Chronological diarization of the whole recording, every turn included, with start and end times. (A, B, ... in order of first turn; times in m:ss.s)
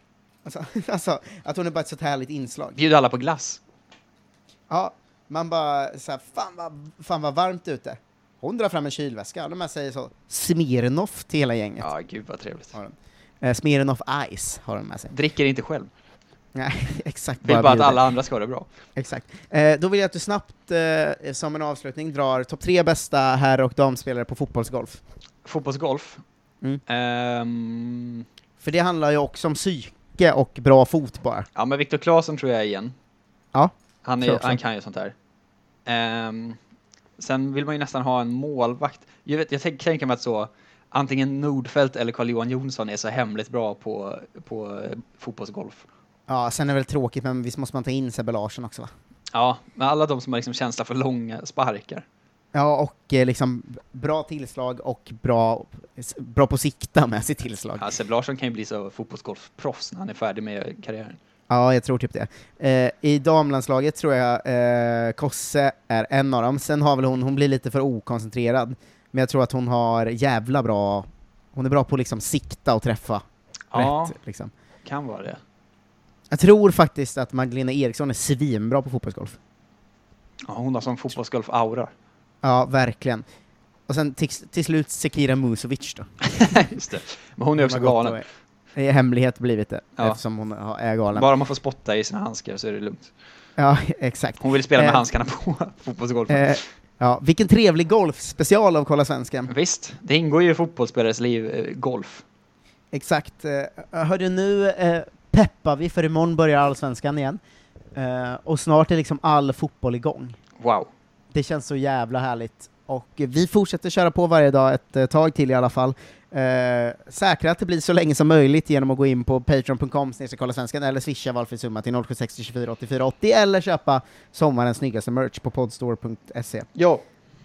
0:00.4-0:02.8 A
0:02.8-0:03.6 B
0:04.7-0:11.9 A
0:11.8-0:12.7 B
0:12.7-0:15.1 A
0:15.1-0:15.9 B
0:16.5-0:18.0 A
0:17.4-0:18.7 B
0:19.0-0:25.0 A
0:25.4-0:26.2 B
0:26.9-0:28.2 B
0:28.6-0:31.5 A
0:31.5-0:32.9 B
0:33.5-0:34.6 A
0:34.0-0:35.1 B
0:35.8-0:36.6 B
0:37.2-0:45.8 B
0:46.3-0:48.9 A
0:49.3-0:52.0 B
0:52.5-0:57.8 A
0:57.8-1:01.2 B
1:01.5-1:14.5 A
1:13.7-1:14.2 B
1:14.8-1:15.4 B
1:16.3-1:19.4 A
1:20.4-1:21.9 B
1:22.4-1:23.2 A
1:23.9-1:26.5 A
1:26.3-1:28.2 B
1:27.6-1:31.2 A
1:31.1-1:33.1 B
1:33.6-1:35.0 A
1:34.4-1:36.6 B
1:36.3-1:39.5 A
1:39.5-1:42.2 B
1:42.9-1:47.4 A
1:47.9-1:50.4 A
1:50.6-1:50.9 B
1:51.3-2:06.7 A
2:06.7-2:07.0 B